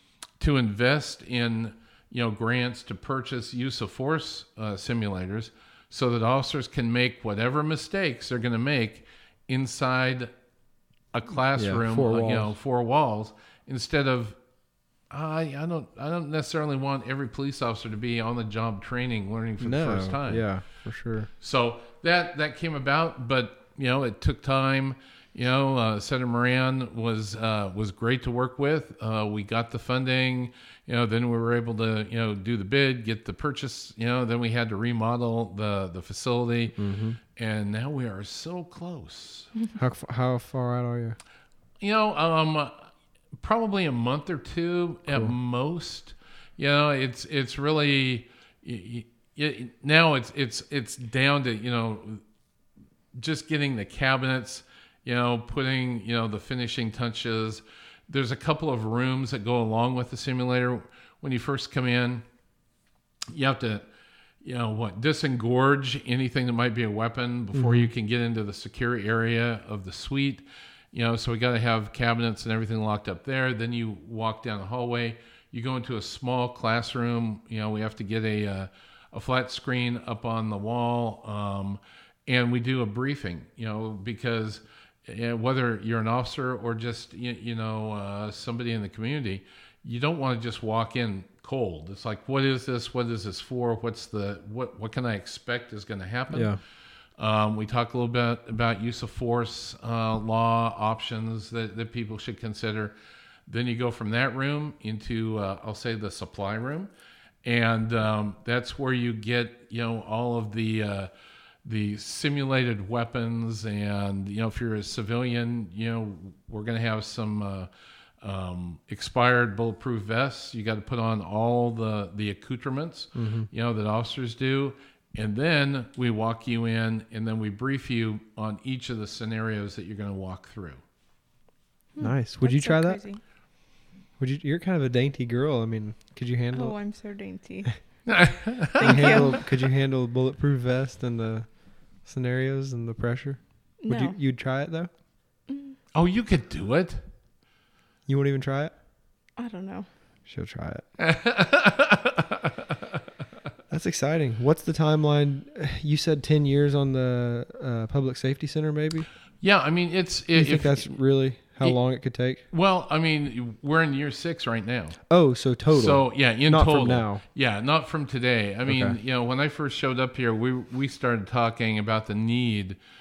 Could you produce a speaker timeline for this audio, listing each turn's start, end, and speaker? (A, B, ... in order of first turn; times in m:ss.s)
0:00.4-0:10.3 A
0:11.1-0:14.4 A
0:11.5-0:12.5 B
0:15.1-0:20.5 A
0:19.6-0:21.3 B
0:21.4-0:36.8 A
0:36.8-0:37.2 B
0:37.4-0:39.5 A
0:39.8-0:41.2 B
0:41.8-0:42.8 A
0:43.4-0:52.2 A
0:53.2-1:02.2 A
1:03.3-1:03.9 A
1:04.4-1:36.6 A
1:07.5-1:07.9 B
1:36.3-1:36.6 B
1:37.2-1:42.9 A
1:43.5-1:46.9 A
1:47.4-1:51.1 A
1:51.6-1:57.7 A
1:58.2-2:10.8 A
2:03.2-2:03.5 B
2:12.0-2:13.2 C
2:12.0-2:13.0 B
2:14.2-2:16.8 B
2:16.5-2:17.8 C
2:18.1-2:19.4 A
2:18.8-2:19.4 C
2:18.8-2:24.9 B
2:23.8-2:24.2 C
2:25.5-2:25.8 C
2:26.0-2:27.0 A
2:28.1-2:28.7 B
2:29.4-2:29.9 C
2:30.3-2:30.8 B
2:31.0-2:32.5 A
2:33.7-2:39.1 B
2:39.4-2:41.0 A
2:40.3-2:42.4 B
2:42.5-2:45.0 A
2:45.1-2:47.2 B
2:45.7-2:52.8 A
2:48.7-2:49.0 B